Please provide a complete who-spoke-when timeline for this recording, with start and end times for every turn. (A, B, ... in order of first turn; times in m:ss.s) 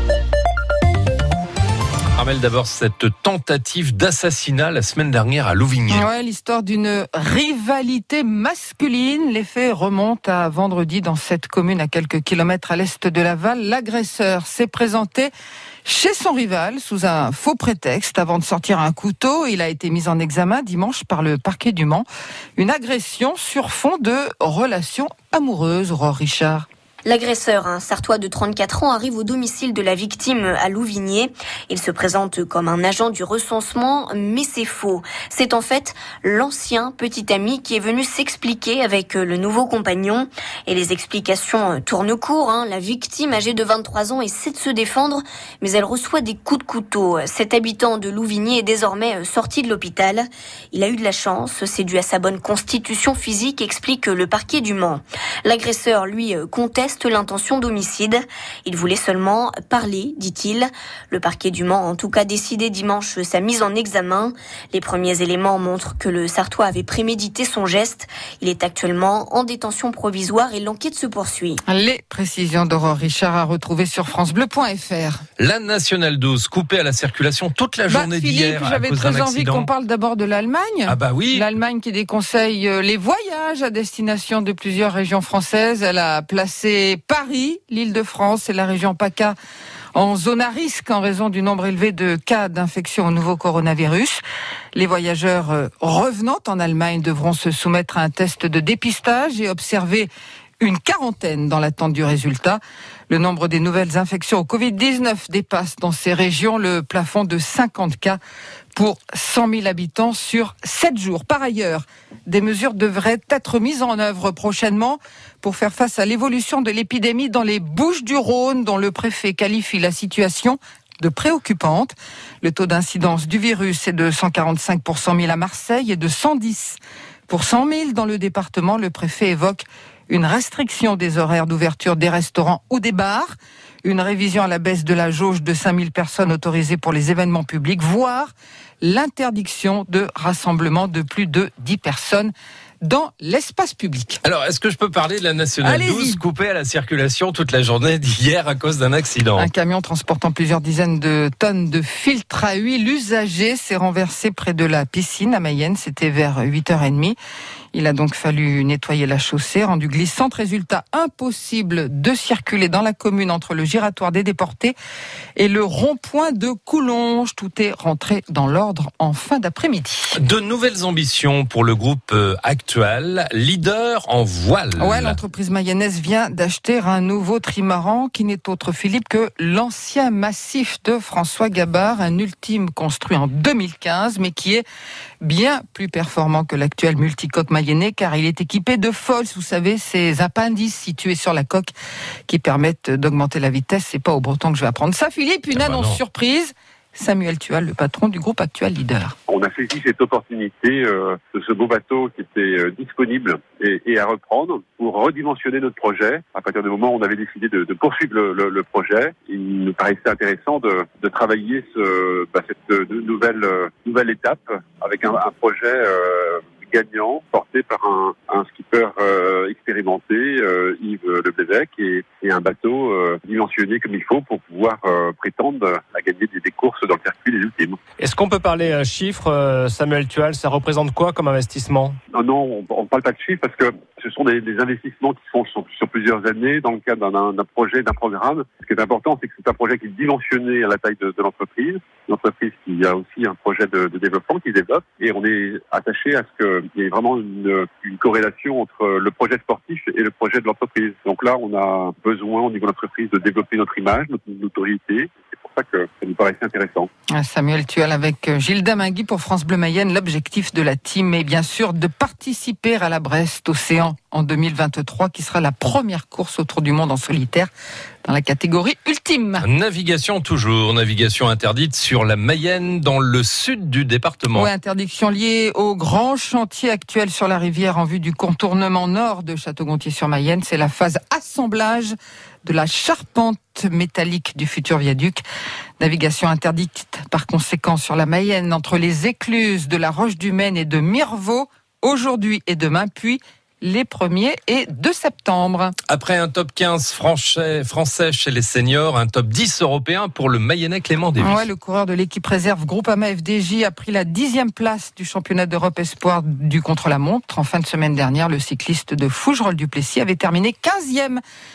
0:02.1-0:06.1 A
0:05.9-0:15.3 B
0:15.8-0:22.0 B
0:22.6-0:26.7 B
0:27.0-1:11.6 C
1:11.7-1:15.2 B
1:15.4-1:19.7 A
1:17.9-1:29.4 B
1:20.9-1:21.5 A
1:29.9-1:34.2 B
1:34.7-1:40.1 B
1:40.6-1:48.2 B
1:48.7-2:24.2 B
2:24.2-2:29.5 A
2:25.6-2:26.2 B
2:29.4-2:37.2 B
2:37.7-2:44.8 B
2:45.4-2:50.2 B
2:50.1-2:55.2 A
2:54.8-3:04.6 B
3:05.2-3:11.7 B
3:12.3-3:19.1 B
3:15.5-3:16.0 A
3:19.3-3:47.8 D
3:48.0-3:52.0 E
3:52.1-4:16.9 D
4:17.1-4:27.5 B
4:28.0-4:29.4 B
4:29.4-4:34.5 A
4:34.3-4:45.2 B
4:45.8-4:55.7 B
4:55.9-5:01.4 A
5:01.2-5:11.2 B